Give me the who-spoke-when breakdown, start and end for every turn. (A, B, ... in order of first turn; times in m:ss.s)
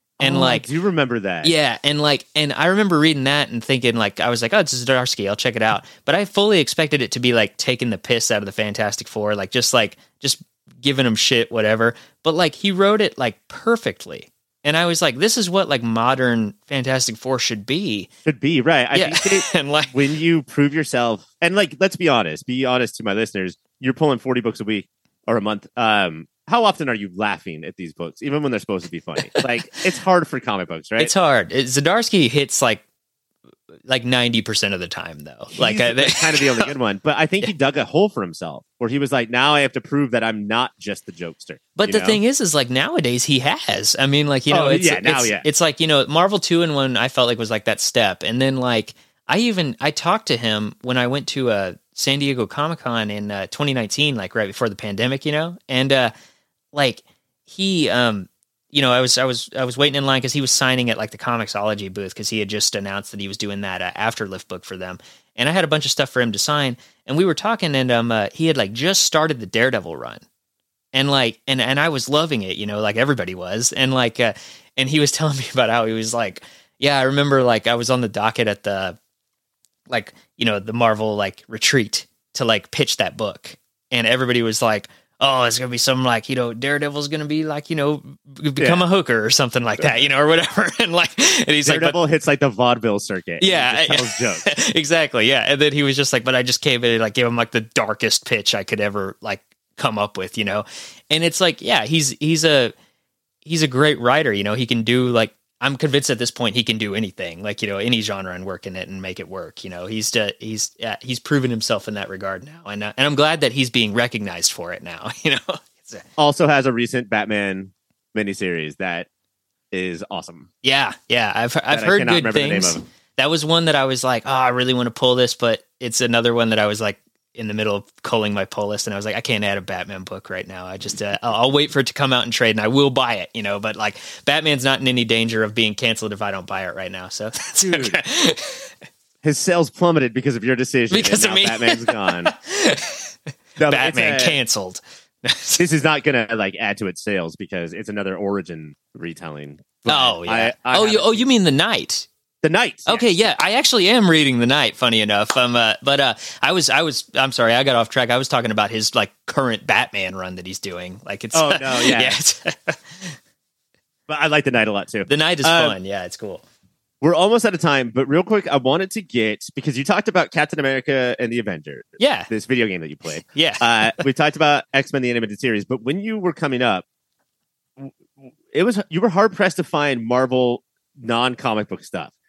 0:00.2-0:01.5 A
0:00.2-0:00.7 B
0:01.4-0:18.1 B
0:18.2-0:31.1 A
0:18.9-0:20.0 B
0:31.0-0:32.8 B
0:33.9-0:36.7 B
0:35.6-0:42.2 A
0:41.7-0:56.1 B
0:44.5-0:45.4 A
0:56.7-1:10.2 B
1:10.9-1:19.0 B
1:19.9-1:32.0 B
1:28.6-1:28.8 A
1:31.6-1:34.5 A
1:33.4-1:42.7 B
1:43.4-1:56.0 B
1:56.2-1:59.1 A
1:59.7-2:00.5 A
2:00.6-2:18.7 B
2:01.7-2:02.8 A
2:17.6-2:18.0 A
2:19.2-2:22.3 A
2:20.9-2:25.6 B
2:23.6-2:24.4 A
2:25.6-2:31.3 A
2:29.9-2:32.1 B
2:32.4-2:33.3 A
2:32.8-2:43.2 B
2:41.3-2:42.2 A
2:44.1-2:45.8 A
2:45.1-2:46.4 B
2:47.0-2:56.8 A
2:52.0-2:52.3 B
2:53.3-2:53.9 B
2:57.8-3:02.1 A